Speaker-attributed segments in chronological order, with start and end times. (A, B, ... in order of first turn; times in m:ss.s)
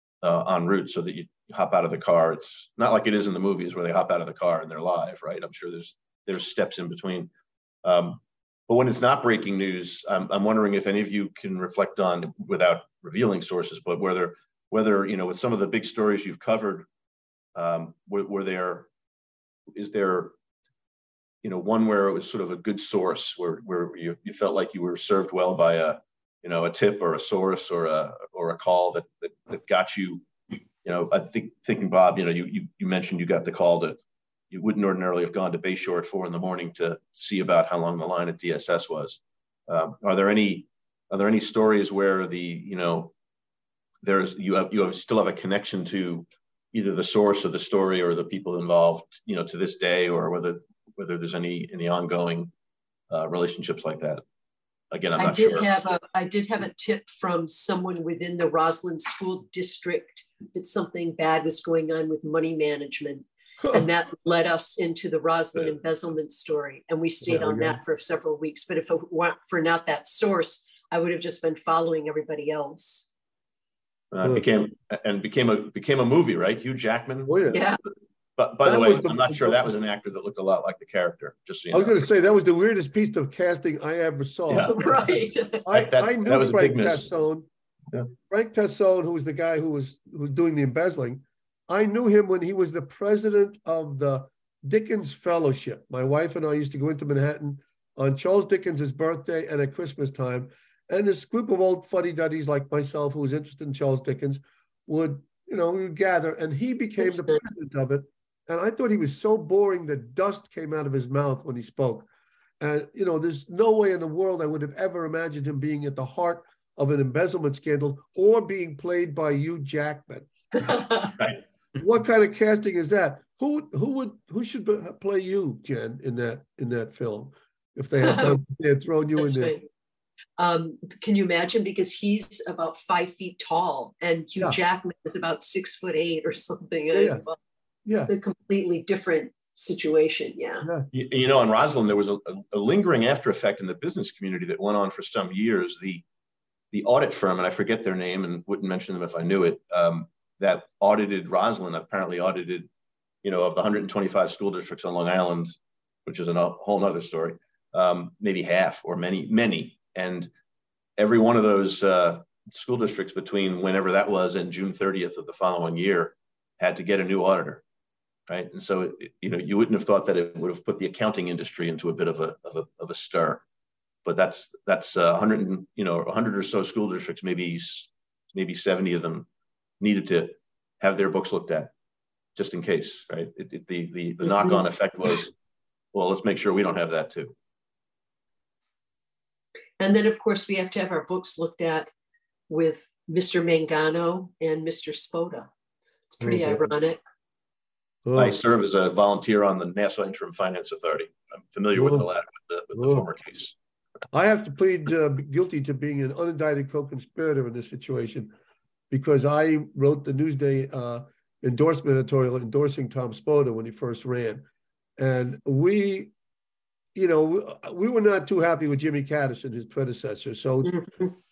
0:00.2-0:07.3 A
0:07.8-0:16.9 A
0:17.5-0:18.9 A
0:19.7-0:20.3 A
0:21.4-0:30.3 A
0:30.8-0:34.0 A
0:34.5-0:43.1 A
0:44.0-0:52.5 A
0:53.1-0:54.2 A
0:54.9-0:56.0 A
0:55.2-1:13.1 B
1:07.2-1:07.8 C
1:14.1-1:22.0 A
1:17.3-1:17.6 C
1:17.5-1:17.8 B
1:18.6-1:19.8 C
1:21.7-1:24.9 C
1:24.5-1:24.8 A
1:24.6-1:25.6 B
1:25.6-1:27.5 C
1:25.7-1:27.1 A
1:28.2-1:52.0 C
1:52.6-2:00.7 C
2:00.5-2:01.1 B
2:01.8-2:09.6 C
2:08.0-2:08.4 B
2:09.2-2:09.7 B
2:10.4-2:17.4 B
2:16.9-2:17.2 C
2:17.8-2:18.1 C
2:18.0-2:20.6 B
2:20.6-2:20.9 C
2:20.9-2:26.0 A
2:26.7-2:32.7 A
2:33.2-2:35.5 A
2:36.0-2:40.3 A
2:41.0-2:47.6 A
2:48.3-2:53.4 A
2:54.0-2:59.3 A
2:59.8-3:01.7 A
3:02.4-3:05.3 A
3:05.9-3:07.3 A
3:09.8-3:11.9 B
3:12.5-3:15.5 B
3:16.1-3:17.0 B
3:16.2-3:16.7 C
3:18.0-3:18.4 C
3:18.1-3:23.5 A
3:21.7-3:22.1 C
3:22.7-3:23.1 C
3:24.1-3:28.3 C
3:28.9-3:34.4 C
3:35.0-3:36.1 C
3:36.9-3:40.9 C